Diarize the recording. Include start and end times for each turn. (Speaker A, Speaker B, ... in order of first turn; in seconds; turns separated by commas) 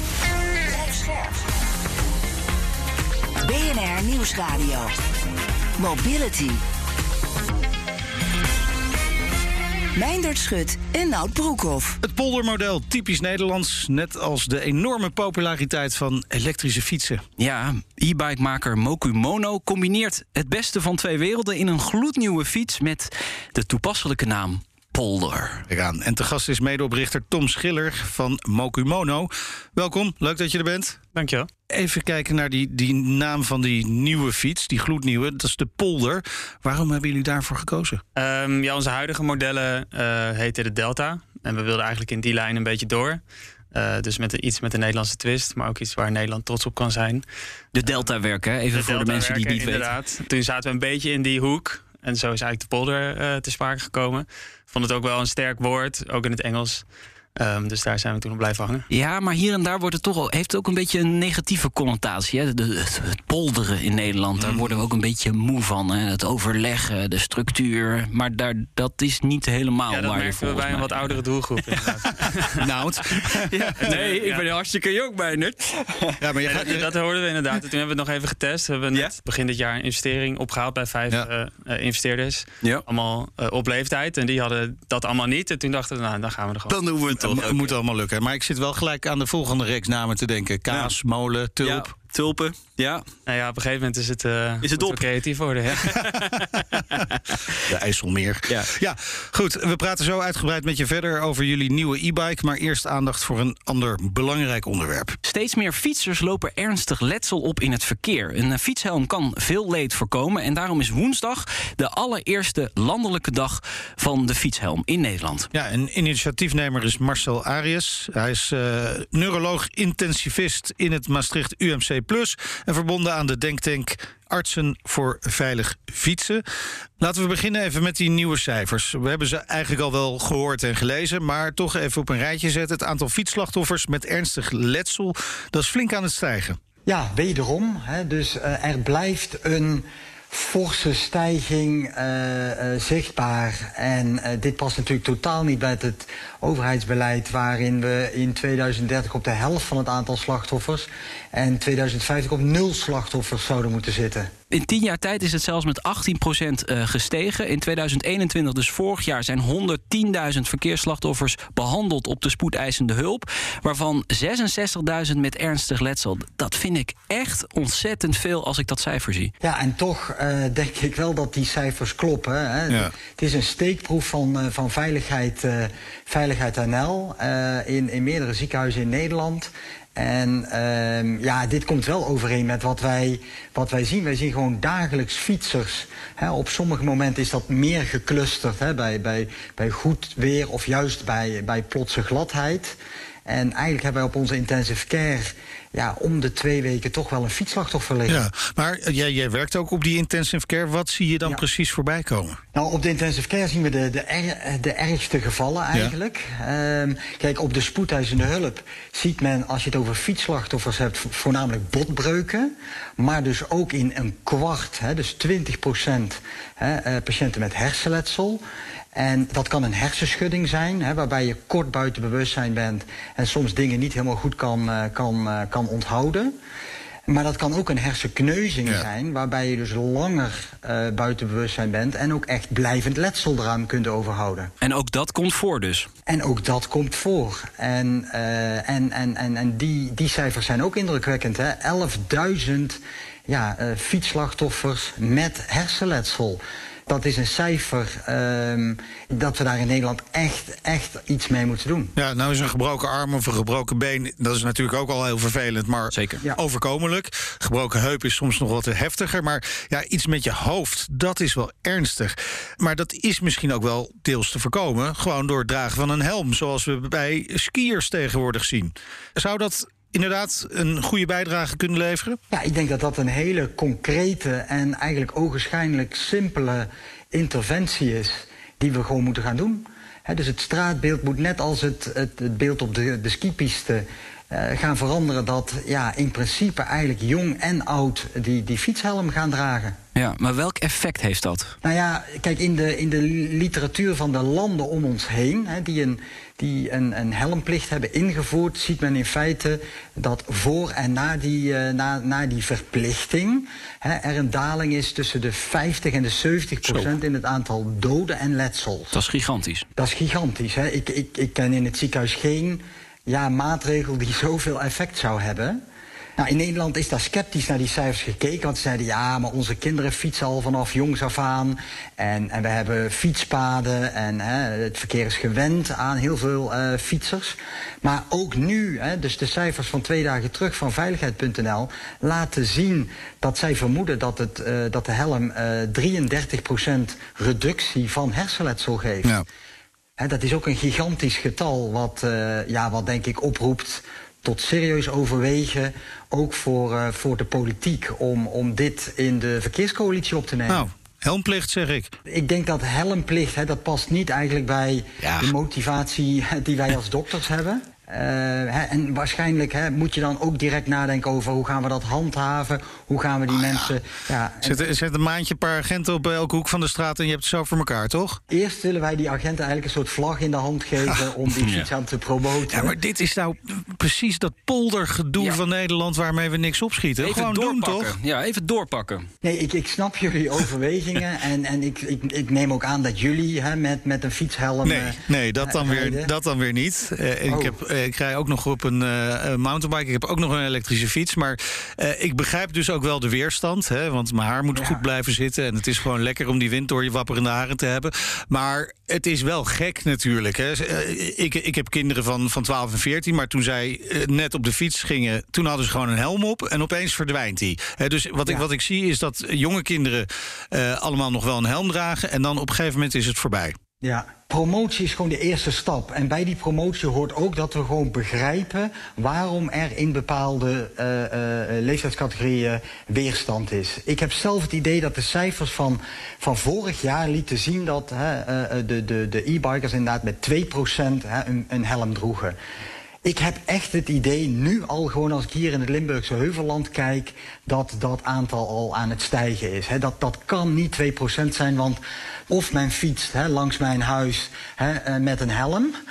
Speaker A: 0.7-1.4, Speaker A: 3.4-4.9, Speaker A: 5.8-6.6, Speaker A: 9.9-12.0, Speaker B: 12.0-17.2, Speaker C: 17.4-25.6, Speaker B: 25.7-31.0, Speaker D: 31.1-31.5, Speaker B: 31.7-38.0, Speaker D: 38.1-43.2, Speaker D: 43.7-47.2, Speaker C: 47.7-49.9, Speaker D: 48.7-56.8, Speaker D: 57.4-58.9, Speaker C: 58.9-71.2, Speaker B: 64.4-64.8, Speaker D: 69.9-72.6, Speaker B: 72.6-73.9, Speaker C: 73.2-76.2, Speaker D: 73.8-74.5, Speaker B: 76.2-76.9, Speaker D: 76.4-86.8, Speaker C: 86.7-87.7, Speaker B: 87.2-91.9, Speaker C: 91.6-93.0, Speaker D: 93.2-96.5, Speaker C: 94.6-95.0, Speaker C: 95.9-97.5, Speaker B: 97.6-105.2, Speaker C: 105.2-115.5, Speaker B: 115.5-126.4, Speaker B: 127.0-136.6, Speaker E: 136.8-154.3, Speaker C: 154.5-169.3, Speaker E: 169.4-192.7, Speaker E: 193.2-198.2, Speaker B: 198.1-202.4, Speaker E: 202.5-218.4, Speaker E: 218.9-226.3, Speaker E: 227.1-234.5, Speaker C: 234.6-235.9, Speaker E: 236.1-251.9, Speaker B: 251.9-272.2, Speaker C: 255.9-256.2, Speaker E: 272.3-289.8, Speaker C: 289.9-291.5, Speaker E: 291.6-308.9, Speaker B: 306.6-306.9, Speaker C: 308.9-309.6, Speaker E: 309.8-315.6, Speaker E: 316.2-339.2, Speaker E: 340.0-350.7, Speaker B: 350.5-351.9, Speaker E: 352.1-364.7, Speaker B: 355.0-355.3, Speaker B: 363.3-363.7, Speaker B: 364.4-368.2, Speaker E: 368.3-372.7, Speaker C: 371.4-371.7, Speaker B: 372.5-377.9, Speaker C: 377.0-379.1, Speaker E: 379.2-386.1, Speaker B: 384.6-413.6, Speaker E: 387.3-387.5, Speaker E: 394.5-394.8, Speaker E: 413.8-432.4, Speaker E: 433.0-445.7